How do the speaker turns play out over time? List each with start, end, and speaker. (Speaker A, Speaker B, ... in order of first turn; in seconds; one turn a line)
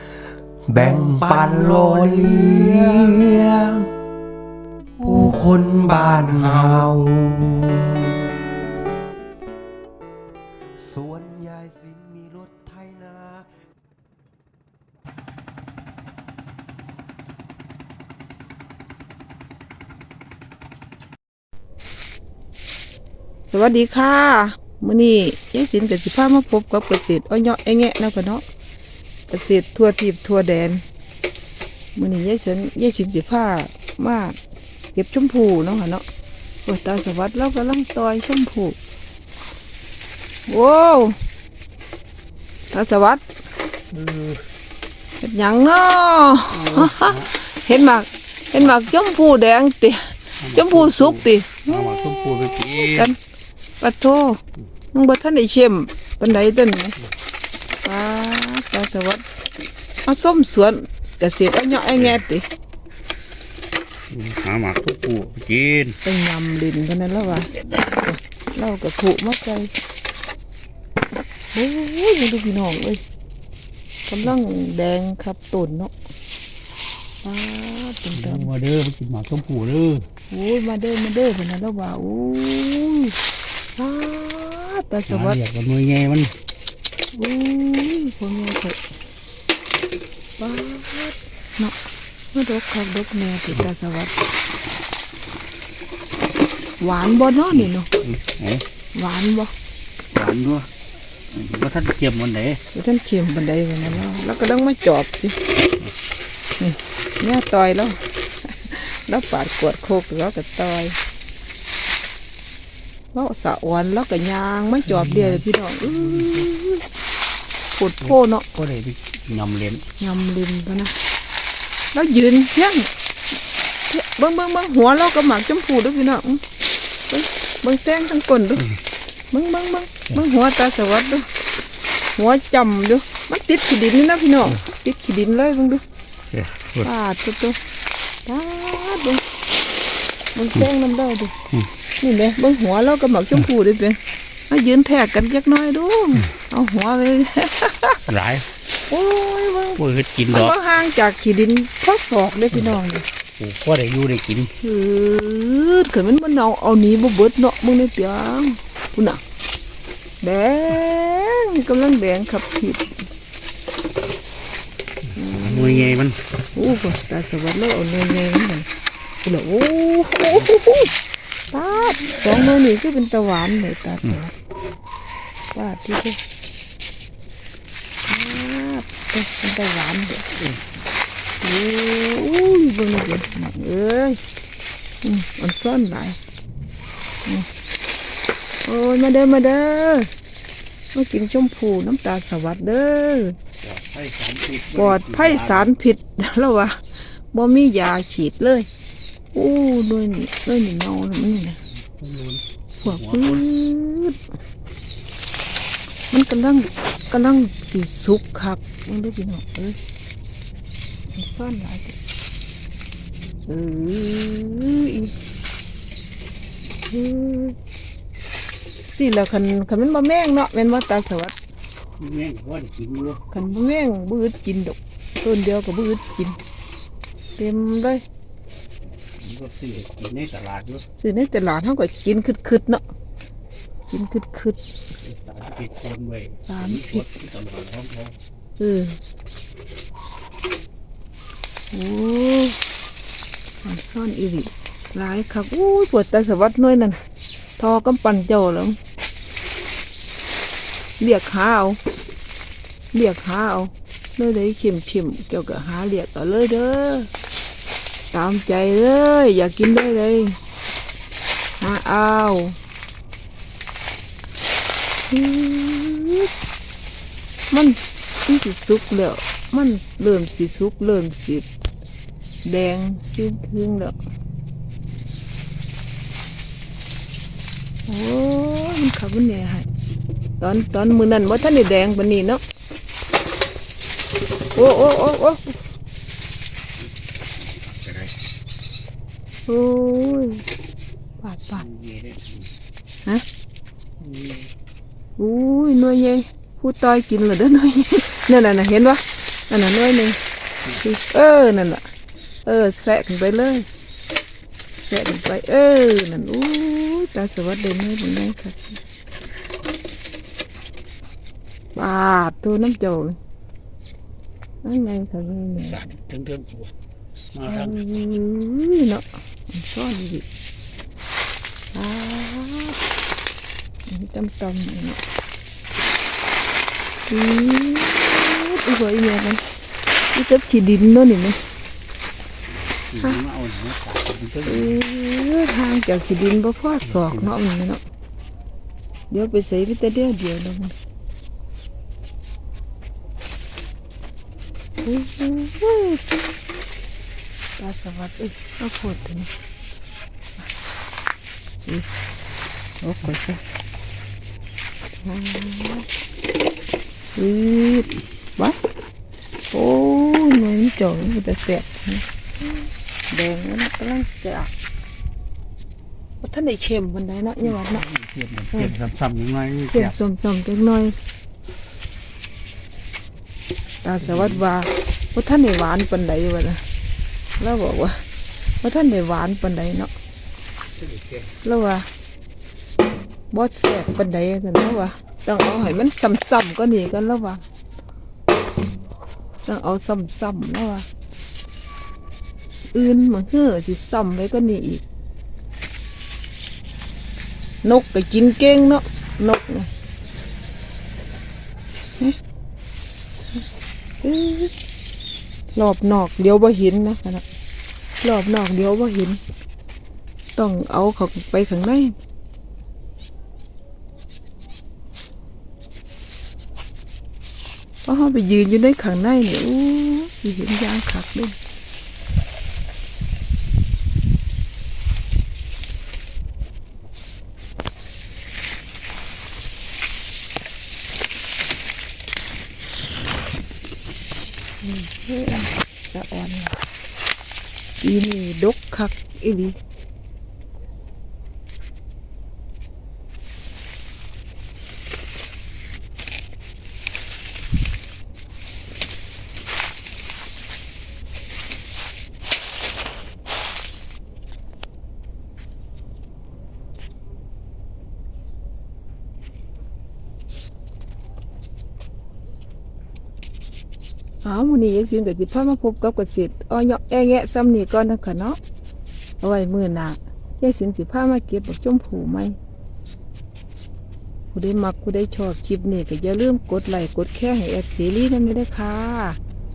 Speaker A: 0.7-3.9
Speaker A: 5.0-8.2
Speaker A: 10.8-13.5
Speaker B: 23.5-28.4
Speaker B: 29.3-30.8
Speaker B: 31.9-34.4
Speaker B: 34.9-36.0
Speaker B: 36.6-38.8
Speaker B: 40.5-41.1
Speaker B: 42.7-43.2
Speaker C: 43.9-44.4
Speaker B: 45.2-51.7
Speaker C: 46.5-47.3
Speaker C: 50.4-53.1
Speaker B: 52.8-53.2
Speaker B: 53.8-54.4
Speaker B: 54.9-57.0
Speaker B: 57.8-59.2
Speaker B: 60.0-62.5
Speaker C: 64.1-66.0
Speaker B: 66.0-69.7
Speaker B: 71.5-73.0
Speaker B: 74.1-75.9
Speaker B: 77.2-78.5
Speaker C: 78.2-80.1
Speaker B: 80.3-83.2
Speaker B: 83.8-85.4
Speaker C: 85.1-86.3
Speaker B: 87.1-88.8
Speaker B: 90.4-91.8
Speaker B: 92.3-94.2
Speaker B: 96.8-97.9
Speaker C: 97.5-98.6
Speaker B: 99.0-99.5
Speaker C: 100.1-100.7
Speaker C: 101.3-102.6
Speaker B: 102.7-105.4
Speaker B: 106.6-111.0
Speaker B: 113.1-116.8
Speaker C: 114.9-116.5
Speaker B: 117.7-118.5
Speaker C: 118.0-119.8
Speaker B: 120.0-120.9
Speaker B: 121.9-122.9
Speaker B: 123.9-126.4
Speaker B: 127.1-128.7
Speaker B: 129.3-131.2
Speaker B: 132.2-135.8
Speaker C: 136.3-136.9
Speaker B: 136.8-137.6
Speaker B: 138.2-139.2
Speaker B: 140.3-141.3
Speaker B: 142.0-144.0
Speaker B: 144.5-148.0
Speaker C: 148.1-148.5
Speaker B: 148.9-153.1
Speaker C: 149.8-150.5
Speaker C: 153.4-154.5
Speaker B: 154.6-159.2
Speaker B: 160.2-162.9
Speaker B: 165.2-166.0
Speaker C: 165.2-166.2
Speaker B: 166.6-168.7
Speaker B: 169.2-170.9
Speaker B: 171.5-174.3
Speaker B: 175.5-176.2
Speaker B: 178.1-180.3
Speaker B: 181.4-184.2
Speaker B: 185.0-186.2
Speaker B: 188.7-190.1
Speaker B: 190.9-193.4
Speaker C: 193.6-195.7
Speaker B: 194.7-196.8
Speaker B: 197.3-198.7
Speaker B: 199.3-201.6
Speaker C: 201.7-203.4
Speaker B: 202.8-204.2
Speaker B: 206.1-209.8
Speaker B: 211.1-211.9
Speaker B: 213.5-215.1
Speaker B: 216.9-217.6
Speaker B: 218.9-221.3
Speaker C: 222.0-223.2
Speaker B: 223.3-226.4
Speaker B: 227.4-228.0
Speaker C: 229.2-230.8
Speaker B: 231.0-232.8
Speaker B: 233.9-234.6
Speaker C: 235.0-238.2
Speaker B: 236.5-237.0
Speaker B: 238.6-239.0
Speaker B: 241.7-242.6
Speaker B: 243.6-247.0
Speaker B: 247.6-248.8
Speaker B: 251.0-251.8
Speaker B: 252.9-257.1
Speaker B: 258.1-260.4
Speaker B: 261.6-262.6
Speaker B: 265.1-266.3
Speaker B: 267.5-271.5
Speaker B: 272.4-273.9
Speaker B: 277.9-279.7
Speaker B: 280.4-282.4
Speaker B: 284.6-285.6
Speaker C: 286.8-288.1
Speaker B: 289.5-290.4
Speaker B: 291.2-291.6
Speaker C: 291.6-292.5
Speaker C: 294.0-294.5
Speaker B: 295.2-300.2
Speaker B: 300.8-301.8
Speaker B: 302.4-303.7
Speaker B: 304.8-308.8
Speaker B: 311.8-313.2
Speaker B: 314.6-315.8
Speaker C: 315.6-316.7
Speaker C: 317.3-317.8
Speaker B: 317.5-320.2
Speaker B: 321.7-322.8
Speaker B: 323.9-325.0
Speaker B: 327.1-329.4
Speaker B: 330.1-331.4
Speaker C: 332.5-334.8
Speaker B: 334.5-337.8
Speaker C: 336.9-337.3
Speaker B: 339.1-340.7
Speaker B: 344.8-346.0
Speaker B: 347.6-349.3
Speaker B: 352.8-353.4
Speaker B: 355.0-355.9
Speaker B: 357.1-358.6
Speaker B: 359.5-364.5
Speaker B: 366.2-367.8
Speaker C: 367.4-369.9
Speaker B: 369.7-370.9
Speaker B: 373.8-376.6
Speaker C: 374.0-374.4
Speaker B: 377.4-378.0
Speaker B: 378.6-379.9
Speaker C: 380.8-381.3
Speaker B: 381.4-381.9
Speaker B: 383.3-387.4
Speaker B: 389.4-390.9
Speaker B: 392.7-394.8
Speaker B: 397.6-399.7
Speaker B: 404.0-404.5
Speaker B: 405.5-407.2
Speaker B: 408.0-409.2
Speaker B: 410.4-411.9
Speaker B: 417.9-421.4
Speaker B: 434.6-436.6
Speaker B: 437.8-439.6
Speaker B: 464.2-468.4
Speaker B: 469.2-472.4
Speaker B: 474.3-479.2